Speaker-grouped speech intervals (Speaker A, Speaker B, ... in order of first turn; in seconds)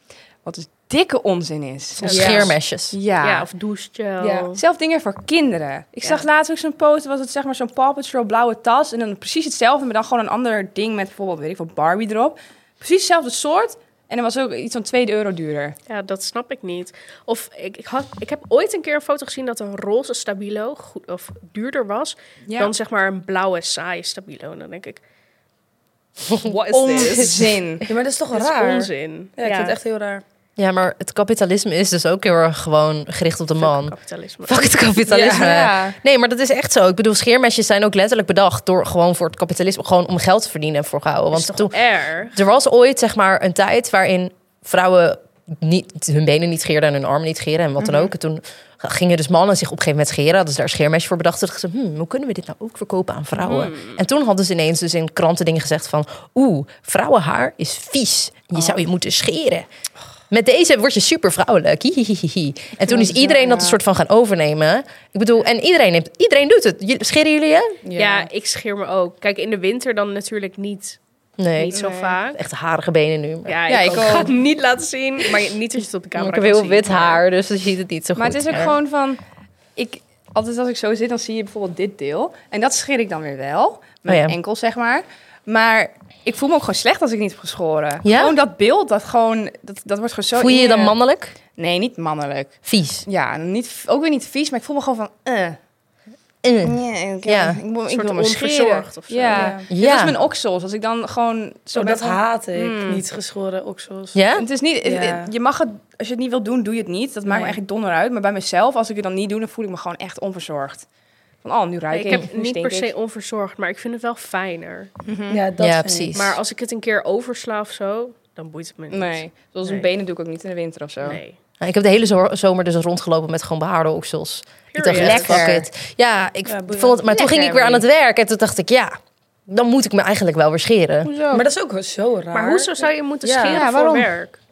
Speaker A: 0.4-3.5, 4.2-15.7, 22.5-22.7, 26.5-27.8, 35.1-36.0, 47.8-48.1, 62.9-63.8, 71.7-72.2, 73.7-74.3, 78.2-79.2, 79.8-91.0, 91.6-95.6, 96.6-103.0, 104.4-110.8, 111.4-112.9, 115.0-115.4, 118.9-121.2, 124.9-125.7, 127.0-127.8, 131.0-131.4, 133.5-134.1
Speaker B: 2.0-2.5, 3.2-4.6, 15.9-25.0, 26.9-27.3, 28.3-29.8, 33.6-34.8, 41.3-42.4, 53.4-54.0, 68.0-71.0, 71.6-72.4, 73.5-77.2, 97.9-99.6, 111.9-114.9, 116.1-119.9, 121.0-121.4, 124.7-125.4, 132.3-134.4
Speaker C: 2.0-3.0, 26.3-26.6, 30.6-33.9, 34.5-41.8, 42.3-59.6, 60.3-67.8, 71.4-71.8, 72.3-74.2, 76.1-78.8, 84.1-84.3, 88.0-88.4, 90.3-91.3, 92.7-93.0, 96.4-97.6, 99.7-100.1, 104.1-104.5, 115.6-116.4, 121.6-131.1
Speaker D: 26.7-30.2, 35.1-35.5, 67.8-68.3, 99.3-99.6, 101.7-104.2, 104.8-105.3, 107.3-107.5, 115.3-116.1, 126.5-127.0, 131.3-132.7, 133.2-133.7